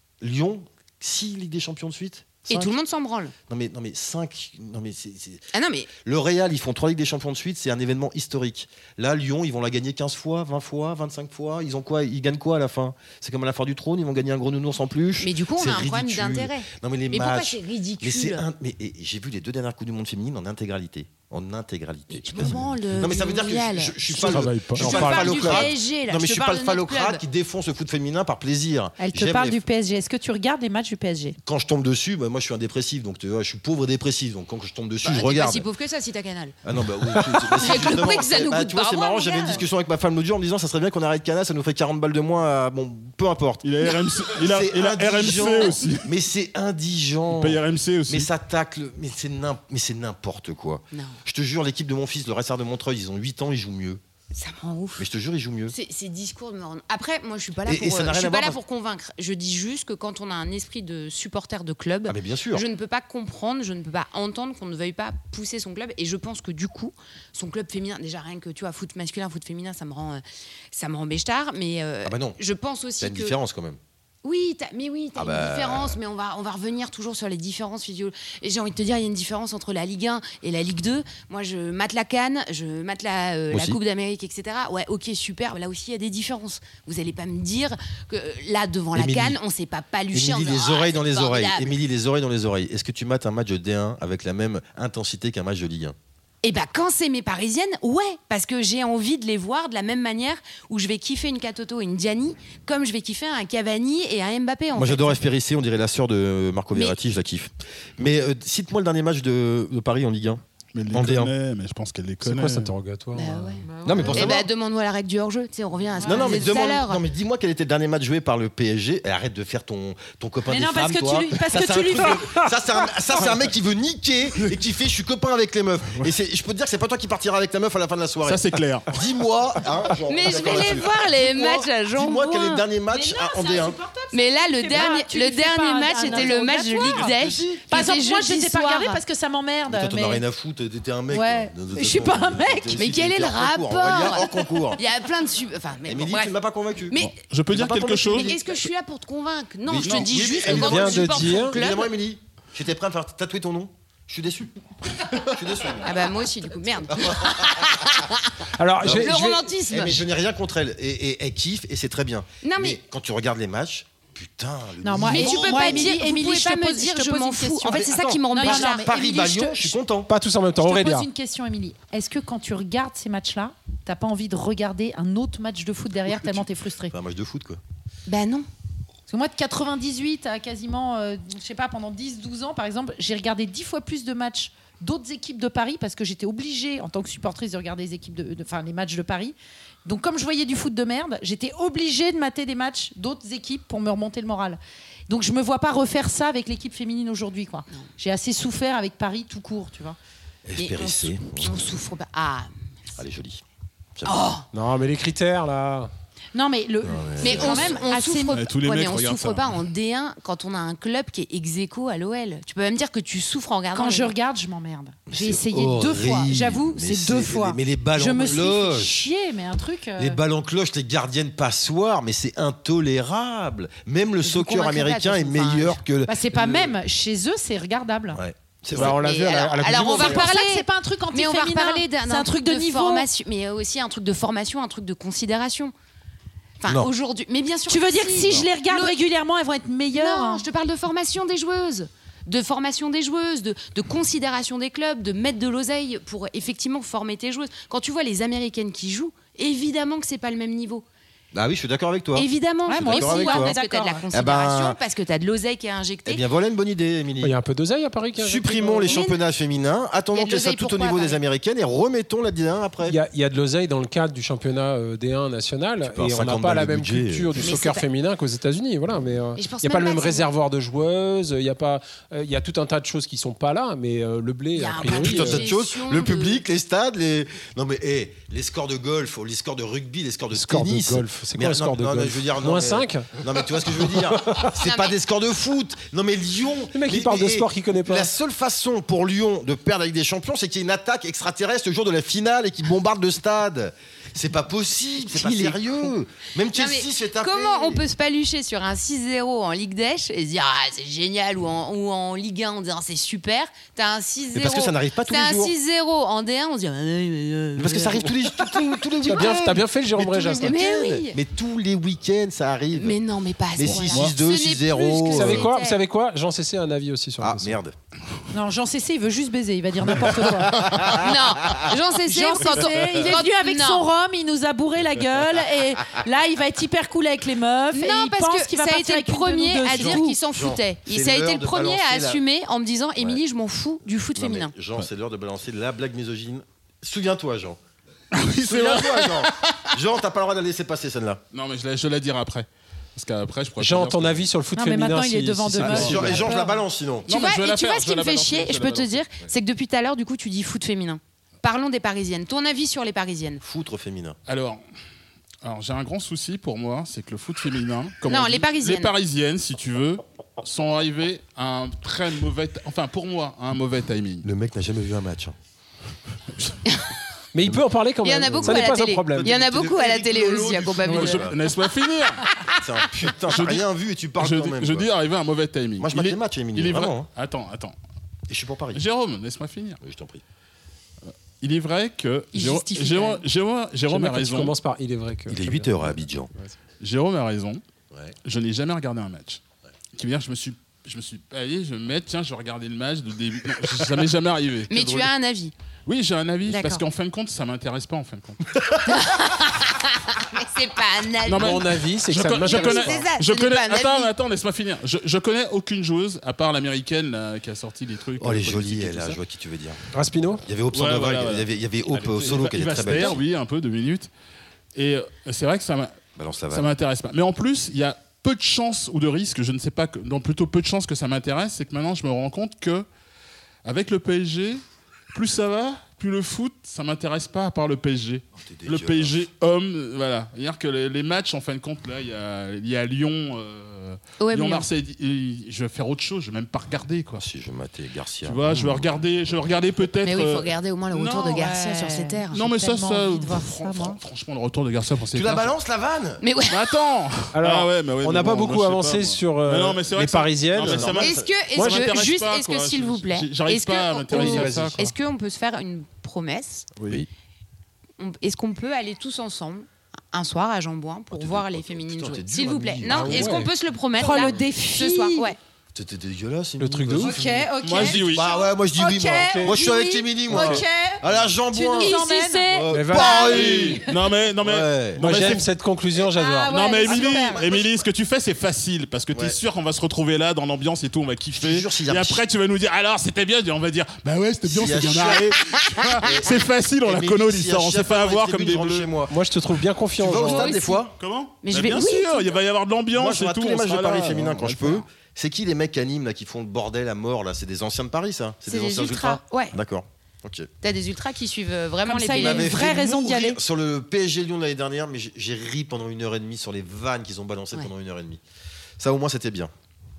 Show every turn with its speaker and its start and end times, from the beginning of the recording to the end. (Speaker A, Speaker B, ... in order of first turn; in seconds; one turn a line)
Speaker A: 0.2-2.7
Speaker B: 2.5-3.3
Speaker A: 3.5-5.4
Speaker B: 5.5-5.9
Speaker A: 6.0-29.6
Speaker B: 15.2-18.4
Speaker B: 22.1-27.2
Speaker C: 24.3-25.7
Speaker D: 24.3-24.9
Speaker E: 29.0-31.4
Speaker A: 31.4-35.7
Speaker B: 35.0-36.5
Speaker A: 36.6-43.6
Speaker B: 37.3-39.6
Speaker D: 43.6-46.1
Speaker A: 44.3-54.0
Speaker D: 47.3-48.3
Speaker B: 50.9-51.2
Speaker B: 54.3-55.0
Speaker A: 55.0-55.7
Speaker B: 55.7-73.3
Speaker A: 57.6-58.6
Speaker A: 62.0-62.6
Speaker A: 72.0-72.4
Speaker A: 73.0-73.8
Speaker B: 74.2-91.7
Speaker A: 75.1-76.0
Speaker A: 83.5-83.8
Speaker A: 88.9-89.4
Speaker A: 90.1-96.0
Speaker B: 96.4-105.2
Speaker A: 104.7-111.3
Speaker D: 110.7-112.7
Speaker C: 112.2-113.6
Speaker B: 113.1-117.0
Speaker E: 113.7-114.3
Speaker A: 113.8-114.5
Speaker E: 116.0-116.5
Speaker A: 116.0-133.8
Speaker E: 120.5-122.9
Speaker D: 128.2-128.9
Speaker B: 130.1-132.6
Speaker E: 132.9-137.2
Speaker B: 134.1-139.0
Speaker A: 136.0-137.6
Speaker E: 137.7-140.2
Speaker A: 139.7-144.8
Speaker E: 141.1-142.8
Speaker B: 142.7-146.3
Speaker A: 145.8-146.9
Speaker D: 146.9-148.4
Speaker A: 147.5-148.4
Speaker B: 148.1-151.9
Speaker A: 149.7-154.5
Speaker D: 149.8-150.3
Speaker C: 150.4-151.6
Speaker A: 155.0-156.1
Speaker B: 155.8-160.0
Speaker A: 156.9-157.8
Speaker C: 158.5-159.5
Speaker A: 158.8-165.9
Speaker B: 162.4-162.8
Speaker E: 164.8-169.8
Speaker B: 165.1-168.9
Speaker A: 167.6-170.1
Speaker C: 170.1-171.1
Speaker E: 170.6-176.9
Speaker A: 176.1-177.6
Speaker B: 178.1-178.5
Speaker E: 179.1-200.0
Speaker A: 200.4-201.8
Speaker B: 200.6-202.5
Speaker A: 202.9-203.4
Speaker A: 203.9-204.3
Speaker B: 204.0-204.4
Speaker C: 204.5-205.9
Speaker E: 206.3-208.4
Speaker A: 206.8-207.8
Speaker B: 207.2-214.1
Speaker D: 208.3-209.5
Speaker E: 213.7-220.2
Speaker A: 215.1-219.1
Speaker A: 220.0-226.7
Speaker B: 224.2-225.8
Speaker E: 226.1-228.2
Speaker A: 228.1-229.0
Speaker C: 228.7-230.3
Speaker B: 228.8-235.7
Speaker E: 229.9-233.1
Speaker B: 236.6-238.9
Speaker E: 237.7-240.4
Speaker B: 239.9-250.8
Speaker A: 251.3-253.6
Speaker B: 252.2-256.2
Speaker E: 252.7-254.1
Speaker A: 254.1-254.8
Speaker A: 256.1-257.4
Speaker C: 257.2-259.0
Speaker A: 258.2-263.0
Speaker B: 258.9-259.2
Speaker B: 260.1-261.2
Speaker C: 262.9-275.5
Speaker A: 265.8-267.4
Speaker B: 267.4-267.9
Speaker B: 269.4-270.3
Speaker B: 274.5-276.4
Speaker A: 274.8-297.8
Speaker C: 280.3-283.1
Speaker C: 283.7-284.5
Speaker B: 284.5-284.9
Speaker C: 286.7-288.1
Speaker B: 295.1-295.9
Speaker B: 296.5-308.1
Speaker A: 304.3-305.5
Speaker A: 307.6-313.0
Speaker C: 309.0-310.6
Speaker B: 310.2-311.2
Speaker B: 312.7-315.8
Speaker A: 313.6-315.5
Speaker D: 313.6-314.1
Speaker C: 315.1-317.6
Speaker A: 317.2-317.7
Speaker E: 318.3-321.1
Speaker A: 320.6-321.6
Speaker B: 320.9-323.8
Speaker E: 322.0-330.2
Speaker B: 327.7-334.5
Speaker A: 329.7-332.2
Speaker A: 334.1-337.6
Speaker D: 338.1-339.7
Speaker A: 338.4-341.2
Speaker D: 341.3-344.3
Speaker C: 343.6-346.2
Speaker E: 344.5-346.6
Speaker D: 345.6-346.2
Speaker A: 345.7-347.1
Speaker D: 347.1-349.1
Speaker B: 347.1-353.4
Speaker A: 353.4-354.2
Speaker D: 354.3-354.6
Speaker D: 355.4-364.3
Speaker B: 358.1-358.9
Speaker A: 364.2-365.3
Speaker C: 367.3-369.3
Speaker B: 368.0-371.3
Speaker A: 368.2-371.4
Speaker D: 370.9-372.2
Speaker A: 372.6-374.9
Speaker D: 373.3-373.6
Speaker D: 374.2-377.8
Speaker A: 375.8-377.1
Speaker A: 378.3-378.8
Speaker D: 378.7-379.8
Speaker A: 379.8-380.2
Speaker D: 381.0-384.5
Speaker B: 382.3-383.2
Speaker C: 383.9-386.6
Speaker A: 385.3-386.3
Speaker D: 386.8-387.6
Speaker D: 388.2-389.4
Speaker D: 389.9-395.1
Speaker B: 394.7-395.5
Speaker D: 395.9-398.6
Speaker B: 396.4-396.8
Speaker B: 398.9-401.7
Speaker D: 401.2-409.2
Speaker C: 401.3-403.0
Speaker B: 402.4-404.1
Speaker A: 408.2-409.8
Speaker C: 409.9-410.4
Speaker A: 410.4-413.2
Speaker D: 410.7-411.4
Speaker C: 411.9-412.4
Speaker D: 412.2-414.1
Speaker D: 414.7-415.9
Speaker A: 416.1-416.7
Speaker D: 416.5-422.9
Speaker D: 423.6-437.2
Speaker A: 428.4-429.2
Speaker B: 434.2-434.7
Speaker A: 437.2-438.9
Speaker D: 438.2-441.5
Speaker B: 440.0-442.4
Speaker E: 441.3-444.0
Speaker D: 442.3-445.5
Speaker A: 445.1-446.2
Speaker B: 446.2-446.7
Speaker D: 446.5-454.8
Speaker C: 447.3-451.0
Speaker A: 450.6-451.3
Speaker B: 450.9-456.7
Speaker C: 451.6-451.9
Speaker C: 454.1-454.9
Speaker D: 456.8-457.0
Speaker B: 458.0-465.4
Speaker A: 461.1-463.4
Speaker C: 462.9-463.5
Speaker E: 464.0-465.3
Speaker A: 465.7-473.8
Speaker C: 466.6-467.2
Speaker E: 467.0-474.0
Speaker D: 467.6-468.3
Speaker C: 469.2-469.6
Speaker D: 470.3-470.6
Speaker B: 471.7-472.5
Speaker C: 472.7-473.1
Speaker D: 473.1-475.5
Speaker A: 474.4-475.3
Speaker C: 475.0-476.6
Speaker E: 476.0-477.4
Speaker D: 476.5-488.9
Speaker A: 476.8-477.9
Speaker A: 481.3-482.2
Speaker A: 484.4-485.3
Speaker A: 486.0-489.1
Speaker C: 489.1-490.5
Speaker A: 490.0-490.9
Speaker B: 490.2-490.9
Speaker D: 491.0-494.8
Speaker B: 491.4-492.4
Speaker A: 492.9-500.5
Speaker B: 498.5-499.6
Speaker B: 500.6-502.5
Speaker E: 501.8-503.4
Speaker A: 502.1-508.2
Speaker A: 508.8-509.5